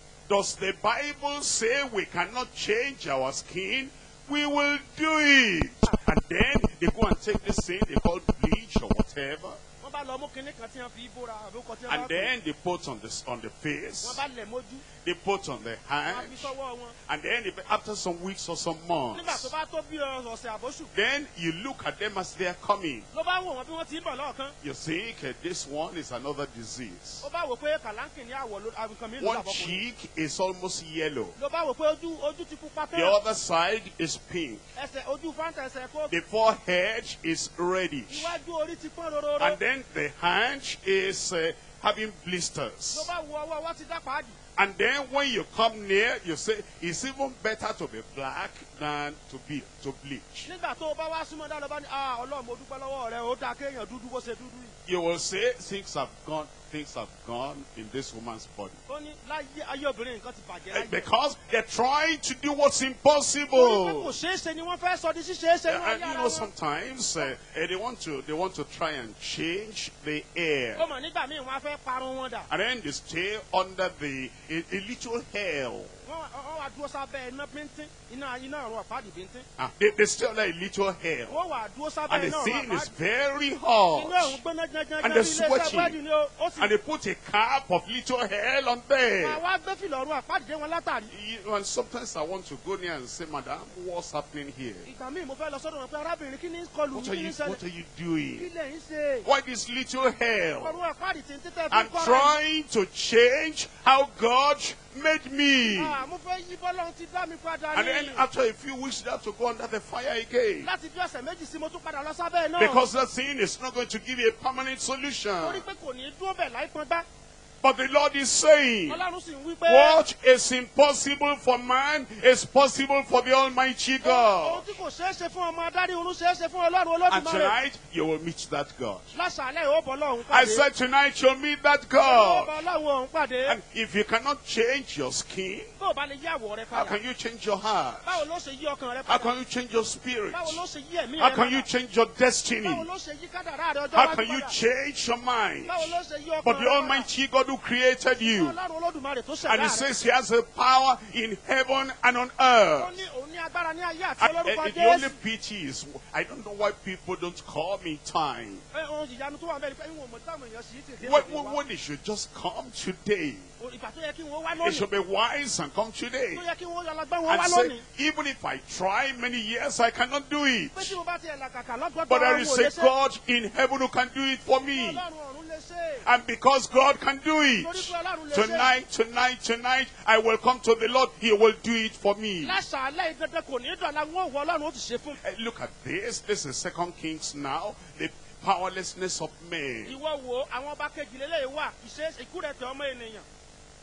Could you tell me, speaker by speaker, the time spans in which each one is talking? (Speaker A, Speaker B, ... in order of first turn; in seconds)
Speaker A: 0.3-9.6, 11.9-14.2, 15.0-16.5, 17.1-19.5, 20.9-23.0, 24.6-27.2, 29.2-31.3, 32.9-34.6, 36.1-38.3, 39.4-43.1, 44.6-50.5, 54.9-58.8, 60.7-64.1, 65.7-70.8, 72.5-75.9, 79.6-81.4, 82.1-84.4, 85.0-86.0, 86.6-89.4, 91.1-94.9, 96.9-98.5, 99.2-100.8, 101.7-106.0, 107.7-110.7, 112.6-115.6, 117.6-119.0, 119.7-124.6, 127.1-129.0, 130.3-132.5, 133.4-135.7, 136.7-138.2, 139.1-140.6, 141.2-142.8, 143.9-148.5, 149.4-153.0, 154.2-158.6, 161.0-163.5, 164.6-166.4, 167.3-170.9, 172.1-175.0, 176.0-182.6, 185.2-189.9
Speaker B: 9.8-12.3, 14.0-14.8, 16.1-16.9, 19.1-20.9, 23.1-24.5, 27.2-29.8, 31.4-33.1, 34.8-36.1, 38.1-39.6, 42.9-44.4, 50.5-54.7, 58.9-61.1, 63.5-66.5, 70.8-72.5, 76.0-79.4, 81.3-82.9, 83.9-86.7, 89.2-91.1, 94.8-97.6, 98.4-99.2, 100.6-102.4, 105.6-108.2, 110.6-112.8, 115.4-117.0, 118.9-120.0, 124.0-127.5, 129.1-130.6, 131.9-133.6, 135.8-137.0, 138.0-139.3, 140.3-141.7, 142.6-144.5, 145.6-147.1, 148.2-149.9, 152.8-155.1, 158.7-161.6, 163.6-164.9, 166.3-167.8, 170.7-172.9, 174.7-176.1, 177.6-178.7, 182.4-185.2, 189.8-193.2